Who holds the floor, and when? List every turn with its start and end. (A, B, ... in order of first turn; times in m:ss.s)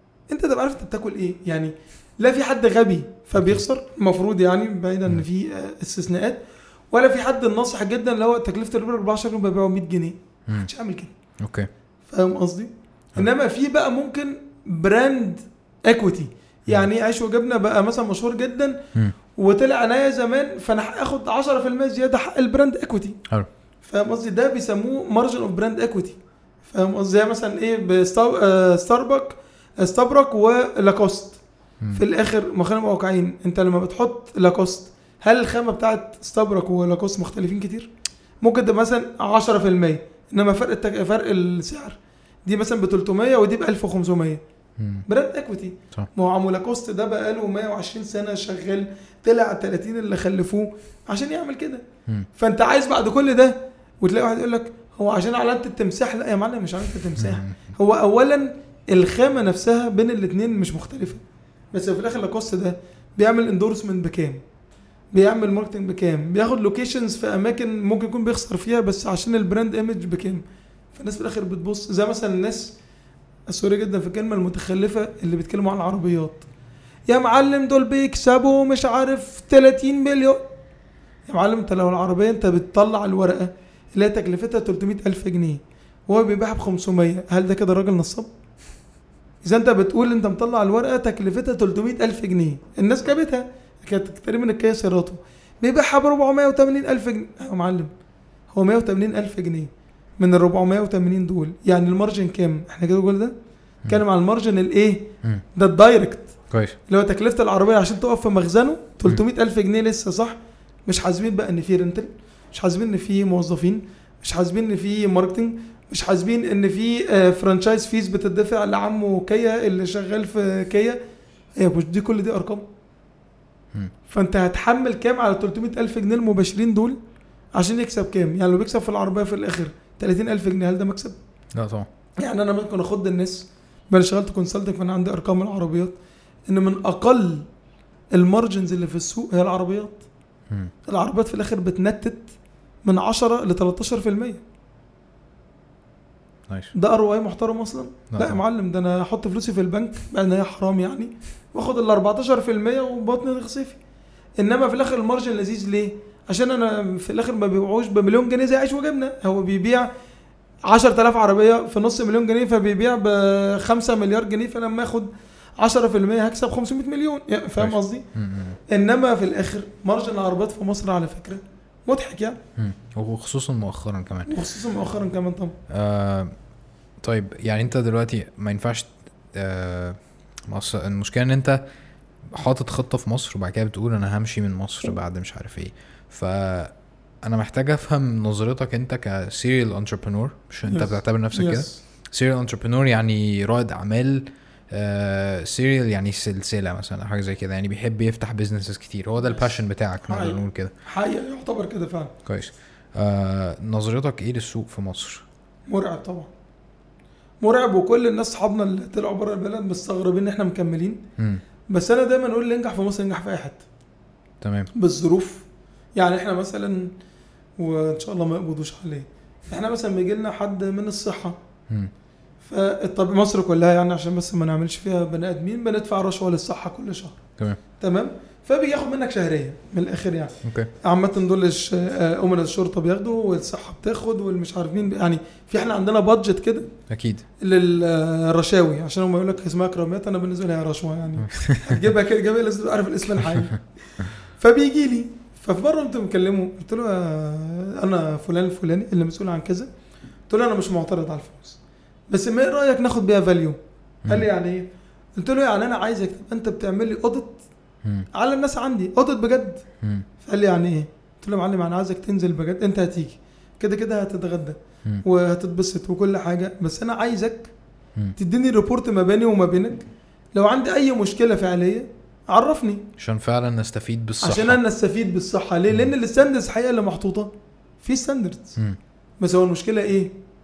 0:00.3-0:11.1 A
0:03.4-0:03.6 B
0:11.4-0:11.7 B
0:12.1-0:18.8 A
0:19.4-0:23.2 A
0:23.8-0:31.4 A
0:31.9-0:37.9 A
0:38.4-0:44.4 A
0:44.8-0:45.1 B
0:45.1-0:51.8 A
0:52.4-1:01.2 A
0:57.2-0:57.6 B
1:01.7-1:04.4 A
1:05.1-1:10.4 A
1:10.9-1:12.8 A
1:13.5-1:16.5 A
1:17.1-1:20.5 A
1:21.3-1:28.3 A
1:29.4-1:37.9 A
1:38.5-1:43.3 A
1:43.9-1:46.3 A
1:46.5-1:46.8 B
1:46.9-2:01.0 A
2:01.6-2:02.7 A
2:04.1-2:07.0 A
2:07.6-2:11.2 A
2:11.5-2:11.9 B
2:12.2-2:16.0 A
2:16.5-2:17.5 A
2:18.1-2:20.0 A
2:20.9-2:22.3 A
2:22.8-2:24.4 A
2:26.7-2:33.8 A
2:28.1-2:28.4 B
2:34.4-2:39.9 A
2:40.7-2:48.1 A
2:47.6-2:48.6 B
2:48.7-2:52.4 A
2:52.6-2:54.4 B
2:54.3-2:55.6 A
2:55.7-2:56.4 B
2:57.0-3:01.6 B
3:02.3-3:20.7 B
3:10.7-3:11.8 A
3:20.0-3:22.1 A
3:22.2-3:25.2 B
3:25.7-3:26.3 A
3:27.4-3:31.0 A
3:31.7-3:33.6 A
3:34.4-3:34.7 B
3:34.7-3:35.4 A
3:36.0-3:36.9 A
3:37.6-3:41.4 A
3:42.4-3:47.2 A
3:47.8-3:56.7 A
3:50.4-3:50.7 B
3:56.9-3:57.2 B
3:57.4-4:03.6 A
4:01.3-4:01.8 B
4:04.2-4:09.7 A
4:10.3-4:11.6 A
4:12.1-4:17.4 A
4:18.1-4:19.6 A
4:20.2-4:27.5 A
4:28.2-4:32.9 A
4:33.0-4:34.6 B
4:34.2-4:38.6 A
4:39.2-4:40.2 A